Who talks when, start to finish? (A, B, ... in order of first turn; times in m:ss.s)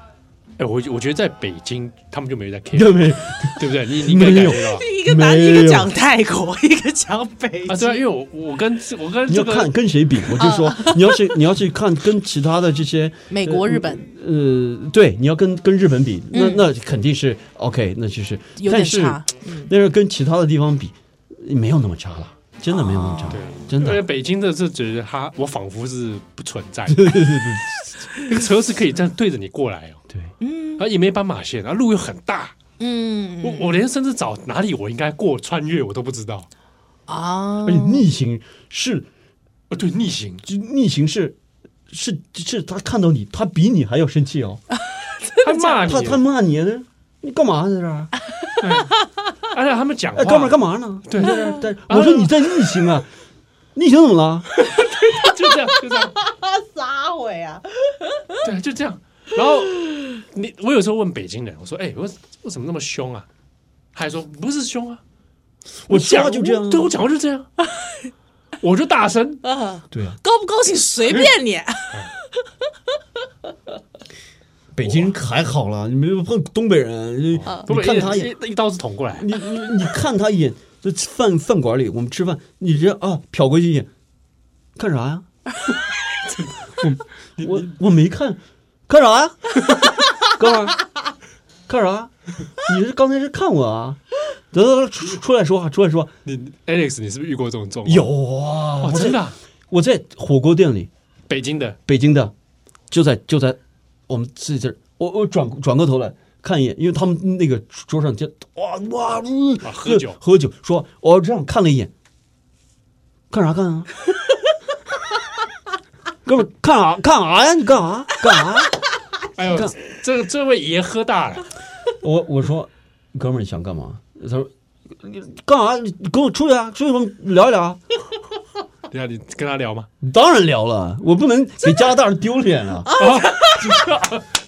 0:00.6-0:04.8 A
0:02.7-0:05.9 B
0:04.4-0:08.0 C
0:07.7-0:09.7 A
0:09.3-0:24.0 B
0:10.4-0:11.2 C
0:13.3-0:14.0 C
0:16.3-0:16.6 C
0:18.6-0:19.7 C
0:22.7-0:23.4 C
0:23.3-0:27.3 A
0:26.9-0:28.4 B
0:28.1-0:30.0 A
0:30.4-0:30.8 C
0:30.8-0:32.5 A
0:32.8-0:33.8 C
0:33.4-0:36.5 A
0:37.1-0:38.0 C
0:37.6-0:39.1 B
0:39.7-0:40.4 A
0:40.4-0:41.4 B
0:41.9-0:44.6 B
0:45.3-0:45.8 C
0:45.4-0:46.2 A
0:45.8-0:48.1 B
0:48.6-0:52.4 A
0:50.1-0:53.1 B
0:51.3-0:51.6 C
0:53.7-0:54.5 B
0:54.6-0:56.1 A
0:54.8-0:58.4 C
0:58.4-1:03.3 A
1:03.9-1:05.0 A
1:05.8-1:07.5 A
1:05.9-1:06.9 B
1:07.6-1:08.1 C
1:08.6-1:09.4 A
1:09.4-1:12.2 C
1:09.9-1:10.2 B
1:14.7-1:18.3 B
1:14.8-1:15.1 A
1:17.4-1:19.3 A
1:19.2-1:23.9 B
1:24.8-1:25.2 B
1:26.3-1:27.7 A
1:26.8-1:29.6 B
1:30.2-1:30.8 B
1:31.7-1:36.1 B
1:36.2-1:38.1 A
1:37.8-1:40.9 B
1:38.8-1:39.4 A
1:41.3-1:41.8 A
1:41.9-1:42.3 B
1:42.9-1:51.9 B
1:49.6-1:50.2 A
1:53.3-1:53.9 B
1:56.2-1:58.8 B
1:59.4-2:01.5 A
1:59.5-1:59.7 B
2:02.0-2:07.8 B
2:08.9-2:09.9 A
2:10.0-2:12.9 B
2:12.8-2:13.9 C
2:13.0-2:14.2 A